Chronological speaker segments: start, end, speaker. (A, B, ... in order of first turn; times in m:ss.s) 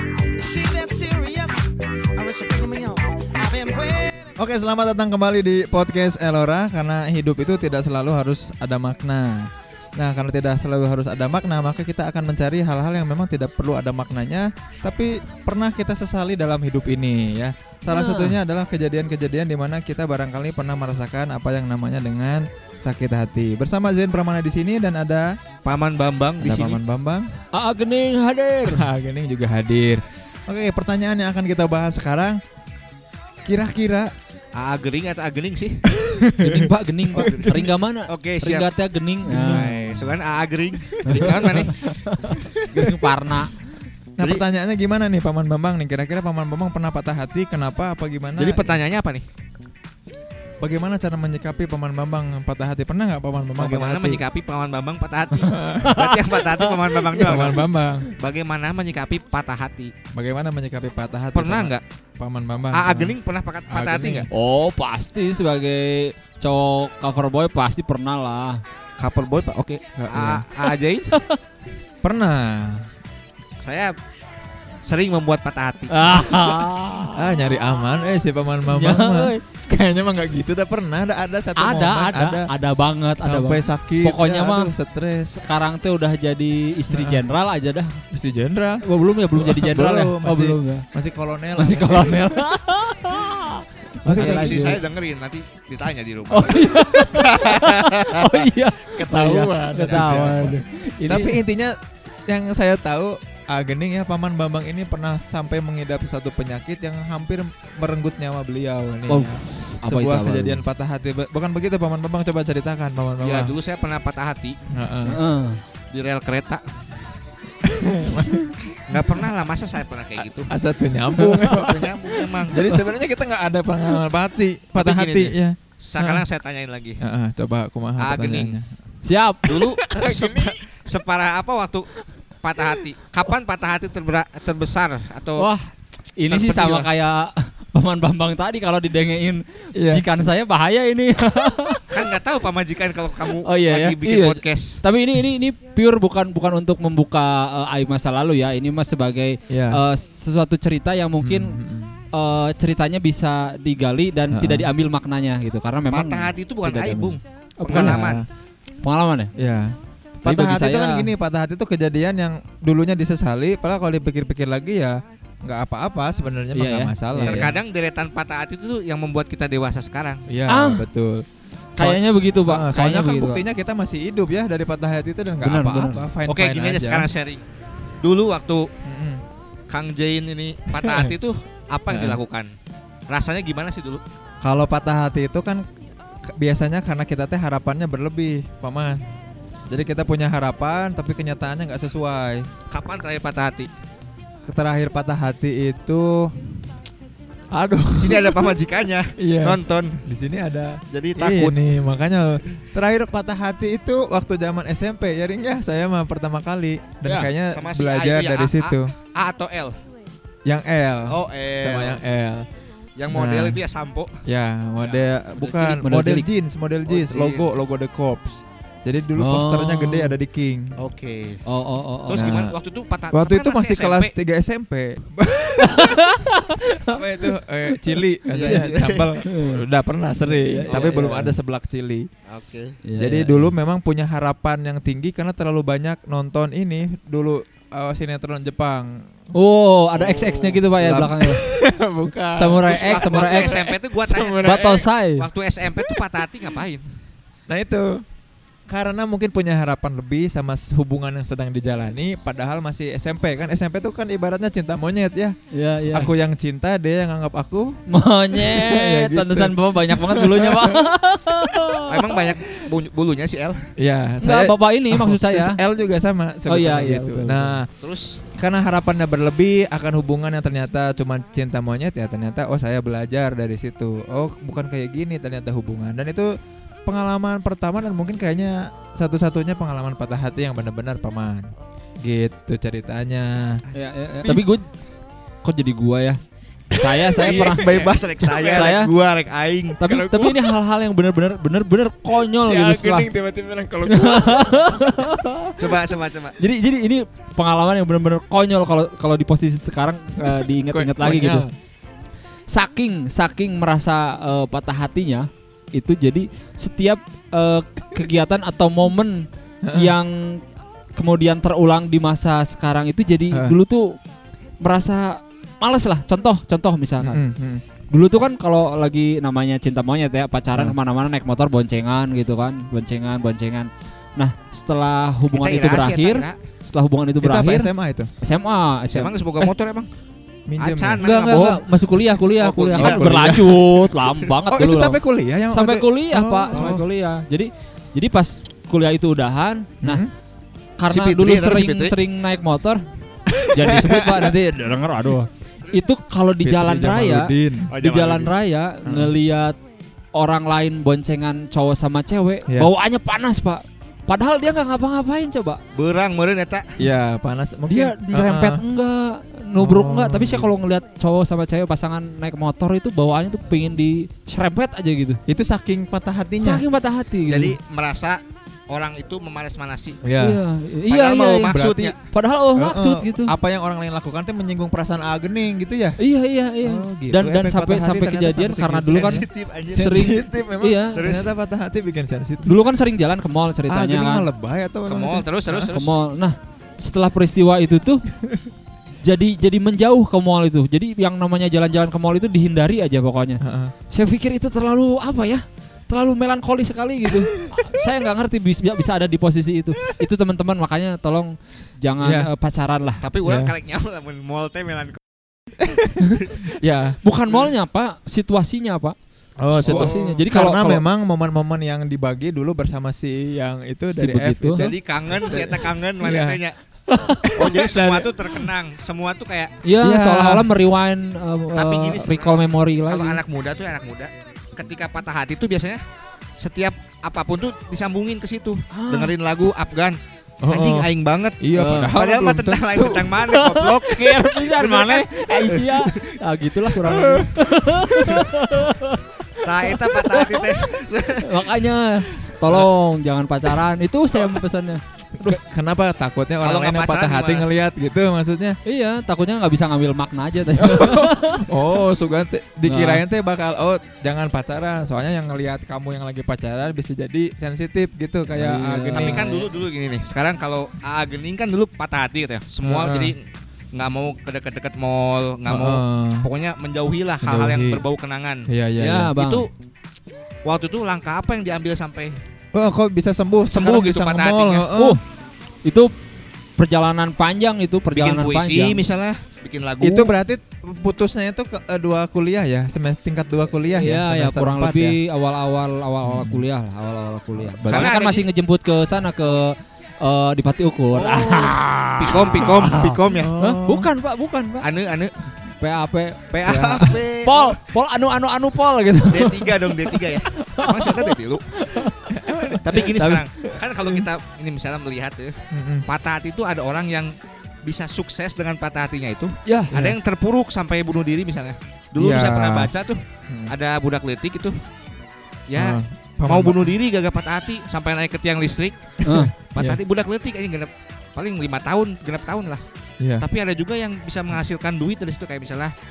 0:00.3-0:04.1 A
0:04.4-0:25.3 B
0:17.9-0:18.4 C
0:25.6-0:26.8 D
0:26.4-0:27.3 B
0:27.5-0:28.9 C
0:28.7-0:32.4 B
0:33.4-0:34.1 B
0:34.6-0:35.8 D
0:35.9-0:37.7 B
0:36.4-0:39.8 C
0:37.1-0:38.7 D
0:39.3-0:40.0 B
0:39.4-0:41.8 D
0:41.1-0:43.5 C
0:41.1-0:41.7 B
0:44.2-0:44.4 D
0:44.2-0:48.7 B
0:48.4-0:49.3 D
0:50.6-0:54.2 B
0:53.6-0:57.7 D
0:55.4-0:56.0 B
0:55.8-0:57.4 C
0:57.2-0:58.1 B
0:58.2-0:59.9 D
1:00.1-1:03.2 B
1:01.3-1:01.8 D
1:02.7-1:04.3 D
1:03.7-1:04.3 B
1:04.3-1:08.6 C
1:09.0-1:11.1 D
1:10.0-1:10.4 B
1:12.0-1:12.8 B
1:13.6-1:13.9 D
1:14.8-1:16.4 D
1:15.9-1:17.4 C
1:17.1-1:22.5 B
1:18.7-1:19.4 C
1:21.6-1:24.7 C
1:23.2-1:25.4 B
1:25.4-1:28.0 C
1:26.9-1:27.2 B
1:28.1-1:28.8 B
1:28.8-1:30.8 C
1:29.4-1:32.4 B
1:31.6-1:34.8 C
1:34.0-1:34.8 B
1:34.2-1:40.6 D
1:36.3-1:41.4 C
1:39.9-1:40.2 B
1:41.0-1:41.8 B
1:42.3-1:53.6 B
1:49.1-1:50.6 C
1:53.2-1:54.6 D
1:54.7-1:55.2 B
1:55.0-1:55.6 C
1:55.9-1:56.6 D
1:57.6-1:58.5 B
1:58.9-2:00.5 D
2:00.5-2:01.9 B
2:01.2-2:02.6 D
2:02.5-2:06.2 B
2:04.8-2:07.0 D
2:07.0-2:08.7 B
2:08.0-2:08.6 D
2:09.0-2:09.5 C
2:09.4-2:15.5 D
2:09.5-2:10.5 B
2:15.4-2:21.9 C
2:16.3-2:16.9 D
2:19.8-2:20.0 B
2:21.9-2:24.8 D
2:23.4-2:24.0 C
2:24.0-2:24.4 B
2:24.8-2:31.6 C
2:29.5-2:29.8 B
2:31.2-2:32.0 B
2:32.1-2:38.1 C
2:34.3-2:34.7 B
2:35.9-2:38.2 D
2:37.6-2:38.3 B
2:38.8-2:39.3 C
2:39.4-2:47.6 B
2:40.2-2:41.1 C
2:46.5-2:47.6 C
2:47.2-2:50.2 D
2:50.3-2:51.3 B
2:50.5-2:50.9 C
2:51.8-2:53.4 C
2:51.8-2:57.1 B
2:55.4-2:56.1 C
2:56.3-2:57.4 D
2:58.0-2:58.7 D
2:58.8-2:59.2 B
2:59.7-3:02.5 D
3:00.8-3:01.1 B
3:01.9-3:02.2 B
3:03.1-3:04.0 D
3:04.4-3:05.6 B
3:06.3-3:09.0 B
3:09.7-3:12.5 B
3:12.7-3:13.7 D
3:14.4-3:16.3 B
3:17.5-3:18.4 B
3:17.9-3:20.0 D
3:19.2-3:28.9 B
3:20.9-3:21.6 D
3:27.0-3:27.3 C
3:27.5-3:29.8 D
3:30.4-3:32.4 B
3:31.1-3:32.0 D
3:33.0-3:34.2 D
3:33.1-3:33.6 B
3:34.2-3:40.8 B
3:35.5-3:36.3 C
3:35.5-3:35.8 D
3:36.8-3:37.5 D
3:39.2-3:40.2 C
3:40.8-3:41.4 D
3:41.4-3:42.4 C
3:42.0-3:44.1 D
3:42.2-3:42.5 B
3:43.1-3:46.0 B
3:45.7-3:47.0 C
3:46.9-3:52.1 B
3:48.3-3:49.1 D
3:48.4-3:49.6 C
3:50.3-3:51.4 C
3:52.3-3:52.8 D
3:52.8-3:53.5 C
3:53.0-3:58.9 B
3:59.3-4:01.4 C
4:00.0-4:04.9 B
4:02.4-4:03.6 C
4:02.6-4:06.9 D
4:04.4-4:05.3 C
4:05.7-4:06.0 B
4:07.5-4:08.0 B
4:08.7-4:15.3 B
4:15.5-4:16.1 C
4:15.9-4:17.8 B
4:17.9-4:21.8 C
4:18.4-4:20.8 B
4:21.9-4:23.7 D
4:23.8-4:27.7 B
4:24.2-4:25.6 C
4:26.5-4:27.6 C
4:27.8-4:28.2 D
4:28.4-4:36.3 B
4:36.8-4:41.5 B
4:42.0-4:43.6 B
4:43.7-4:44.7 C
4:45.4-4:46.2 C
4:46.7-4:48.9 C
4:46.9-4:48.1 B
4:47.2-4:49.8 D
4:49.8-4:53.1 C
4:49.8-4:50.5 B
4:52.3-4:54.6 B
4:53.9-4:55.5 C
4:55.6-4:56.4 D
4:56.4-5:01.5 C
5:00.2-5:01.5 B
5:02.5-5:10.4 C
5:09.6-5:10.0 B
5:11.0-5:14.0 C
5:13.3-5:13.6 B
5:14.6-5:17.2 C
5:17.0-5:17.6 B
5:17.9-5:29.5 C
5:25.3-5:26.4 D
5:27.2-5:28.1 B
5:28.9-5:29.9 D
5:30.5-5:31.6 B
5:30.6-5:31.6 D
5:31.0-5:40.0 C
5:32.4-5:33.5 D
5:32.8-5:33.6 B
5:34.5-5:36.8 B
5:36.5-5:36.9 D
5:39.8-5:40.1 B
5:40.8-5:42.8 C
5:40.9-5:42.0 D
5:43.4-5:44.3 B
5:43.5-5:49.6 C
5:46.4-5:47.7 B
5:47.7-5:48.3 D
5:48.8-5:49.1 B
5:50.1-5:55.6 C
5:55.8-5:56.7 D
5:56.8-5:58.6 B
5:57.7-6:05.2 C
5:59.6-6:00.5 B
6:05.3-6:06.6 B
6:06.4-6:07.6 C
6:07.3-6:10.0 D
6:10.0-6:10.4 B
6:10.2-6:13.3 C
6:10.9-6:12.0 D
6:11.5-6:11.9 B
6:12.6-6:16.0 B
6:16.0-6:21.1 C
6:16.6-6:22.6 B
6:18.9-6:20.0 D
6:20.9-6:21.3 D
6:22.4-6:24.3 C
6:23.7-6:25.8 B
6:24.9-6:25.9 D
6:25.7-6:28.0 C
6:29.0-6:43.0 C
6:33.4-6:33.7 B
6:42.0-6:42.3 B
6:43.0-6:45.0 D
6:43.2-6:43.5 B
6:45.6-6:46.0 B
6:46.5-6:47.0 B
6:47.0-6:49.0 C
6:49.4-6:56.4 B
6:49.5-6:50.8 C
6:49.6-6:50.2 D
6:53.9-6:54.7 C
6:54.6-6:56.6 D
6:56.9-6:57.4 C
6:57.2-6:58.1 B
6:57.4-6:59.5 D
6:59.6-7:03.2 C
6:59.8-7:00.5 B
7:01.5-7:05.8 D
7:06.4-7:10.0 D
7:08.7-7:09.1 C
7:10.4-7:10.9 B
7:10.5-7:11.4 D
7:11.4-7:13.2 B
7:11.6-7:12.0 C
7:11.9-7:16.1 D
7:13.2-7:19.0 C
7:16.8-7:18.2 B
7:19.4-7:21.6 D
7:19.6-7:20.4 C
7:21.2-7:25.4 C
7:22.4-7:22.7 B
7:25.2-7:28.6 B
7:26.4-7:27.5 D
7:28.6-7:31.5 C
7:30.6-7:39.3 B
7:32.6-7:33.0 C
7:38.4-7:39.5 C
7:38.9-7:48.4 D
7:42.6-7:43.1 B
7:45.5-7:46.3 B
7:47.2-7:47.8 B
7:48.5-7:49.1 B
7:48.8-7:49.4 C
7:49.1-7:49.5 D
7:50.4-7:52.2 D
7:52.5-7:55.0 B
7:53.5-7:54.7 D
7:54.7-7:55.0 C
7:55.6-7:55.9 C
7:56.6-7:58.8 C
7:57.9-8:00.1 D
7:59.8-8:05.0 B
8:03.7-8:14.6 C
8:06.0-8:06.4 B
8:07.3-8:07.9 B
8:07.7-8:08.3 D
8:10.9-8:13.3 D
8:13.2-8:13.9 B
8:14.6-8:15.1 D
8:15.6-8:22.0 C
8:16.3-8:17.5 D
8:19.1-8:21.5 D
8:22.1-8:24.0 B
8:22.6-8:27.1 D
8:25.5-8:25.9 B
8:27.6-8:34.6 D
8:29.5-8:29.9 C
8:32.0-8:32.7 B
8:33.3-8:33.5 B
8:35.5-8:38.8 D
8:35.6-8:36.7 B
8:39.0-8:39.8 B
8:39.0-8:39.3 C
8:39.5-8:42.6 D
8:43.0-8:43.2 B
8:43.2-8:45.7 D